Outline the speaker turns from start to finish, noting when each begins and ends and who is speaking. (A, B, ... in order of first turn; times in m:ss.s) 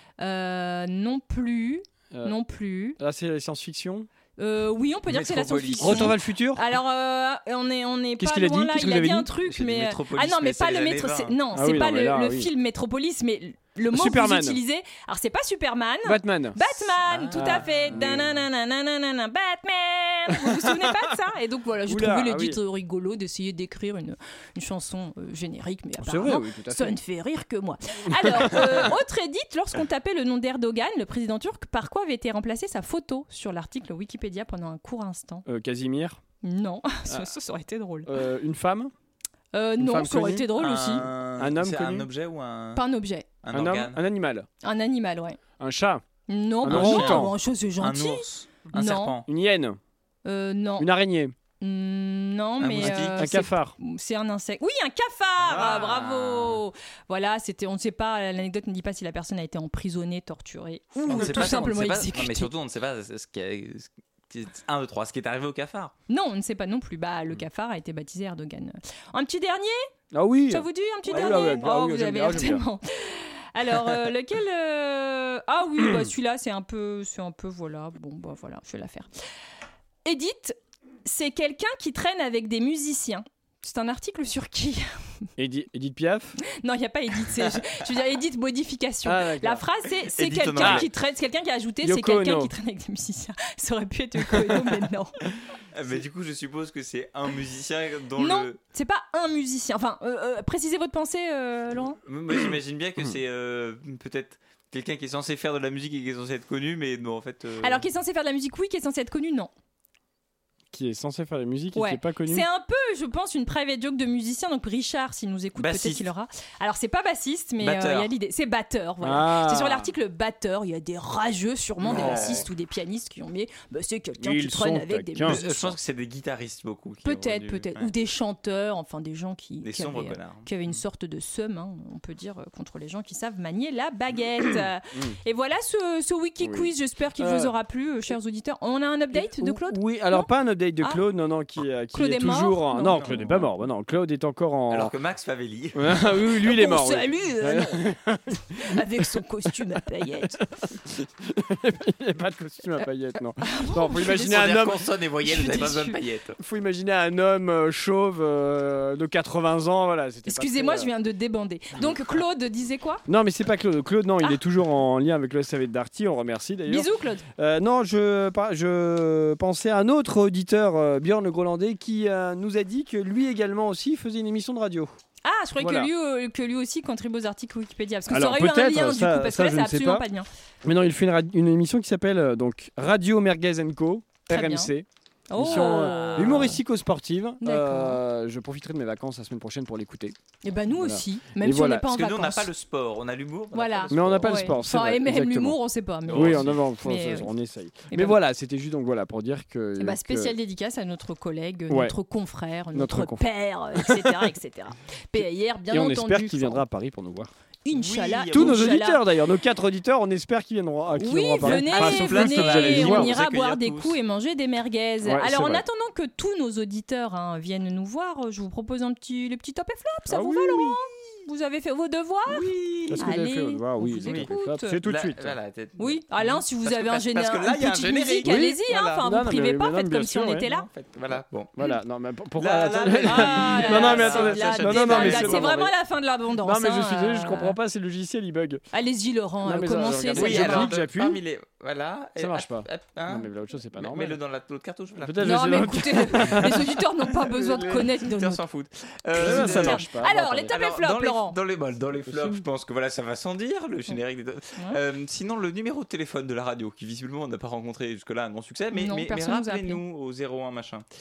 0:00.2-0:03.0 A
0:03.0-0:04.1 B
0:04.4-0:35.4 A
0:05.1-0:06.2 C
0:05.8-0:06.6 B
0:08.2-0:09.3 B
0:09.4-0:11.4 C
0:11.5-0:12.5 B
0:13.9-0:14.6 B
0:16.0-0:16.6 B
0:17.0-0:18.3 C
0:17.3-0:18.2 B
0:20.3-0:20.9 B
0:21.9-0:22.6 B
0:26.0-0:26.9 B
0:28.3-0:28.9 B
0:35.4-0:36.2 B
0:36.4-0:38.1 A
0:38.0-0:38.9 B
0:39.5-0:41.1 A
0:39.8-0:40.5 B
0:40.5-0:42.8 C
0:41.2-0:42.1 B
0:42.7-0:43.3 A
0:43.4-0:44.0 C
0:43.5-0:44.5 B
0:44.6-0:45.4 A
0:45.6-0:46.0 B
0:46.3-0:49.2 A
0:46.6-0:47.3 B
0:46.6-0:49.3 C
0:49.2-0:49.8 B
0:50.2-0:50.9 A
0:50.8-0:51.3 B
0:51.6-1:02.5 A
0:52.6-0:53.3 C
0:52.8-0:53.7 B
0:55.4-0:56.6 C
0:55.4-0:55.8 B
1:01.1-1:05.9 C
1:06.1-1:09.8 A
1:10.1-1:12.6 B
1:10.5-1:19.1 A
1:20.0-1:25.0 A
1:25.4-1:26.4 B
1:26.5-1:35.2 A
1:29.0-1:29.6 B
1:30.1-1:30.9 C
1:30.6-1:30.8 B
1:31.8-1:32.5 B
1:35.7-1:38.6 C
1:38.2-1:42.0 A
1:42.0-1:47.9 C
1:47.6-1:49.5 A
1:50.7-1:52.4 B
1:51.7-2:05.7 A
1:55.6-1:56.1 C
1:57.6-1:58.1 C
1:59.0-1:59.9 B
2:01.8-2:02.5 C
2:01.9-2:02.4 B
2:04.2-2:05.4 B
2:05.2-2:07.9 C
2:07.0-2:21.0 A
2:09.6-2:10.5 C
2:16.4-2:17.5 B
2:19.1-2:24.9 B
2:21.9-2:23.2 A
2:22.8-2:23.5 C
2:24.7-2:26.1 C
2:25.7-2:28.7 B
2:26.4-2:28.0 A
2:28.5-2:30.4 A
2:30.6-2:34.8 B
2:33.4-2:36.0 A
2:34.1-2:36.4 C
2:36.4-2:40.9 B
2:40.3-2:43.0 A
2:43.1-2:54.9 B
2:46.7-2:47.2 A
2:55.2-3:00.3 A
2:55.6-2:55.9 B
2:58.1-3:00.0 B
3:00.6-3:10.1 B
3:04.3-3:04.7 A
3:05.3-3:06.6 A
3:05.4-3:06.5 C
3:07.4-3:08.0 A
3:10.4-3:12.5 A
3:10.7-3:11.8 B
3:11.9-3:14.6 C
3:13.5-3:17.3 A
3:13.9-3:15.6 B
3:16.1-3:16.6 C
3:16.1-3:20.3 B
3:17.9-3:18.2 A
3:19.8-3:26.6 A
3:21.7-3:21.9 B
3:22.7-3:23.2 B
3:23.8-3:24.3 B
3:25.2-3:27.3 B
3:27.6-3:29.0 A
3:27.7-3:28.8 C
3:28.3-3:33.1 B
3:31.0-3:44.8 A
3:31.4-3:34.0 C
3:35.0-3:35.6 B
3:40.1-3:40.8 B
3:42.3-3:43.0 C
3:42.9-3:45.4 B
3:44.0-3:44.3 C
3:44.8-3:49.0 C
3:45.8-3:50.7 A
3:48.2-3:50.5 B
3:50.4-3:51.5 C
3:51.6-3:55.7 B
3:52.4-3:55.6 C
3:53.0-3:57.6 A
3:56.4-3:58.6 B
3:58.7-4:00.7 A
3:59.4-4:01.2 B
4:00.1-4:05.4 C
4:02.2-4:04.2 B
4:05.0-4:06.5 B
4:05.2-4:08.4 A
4:07.2-4:09.8 C
4:09.1-4:11.4 A
4:09.2-4:10.5 B
4:10.5-4:20.8 C
4:12.1-4:12.4 B
4:18.7-4:19.8 A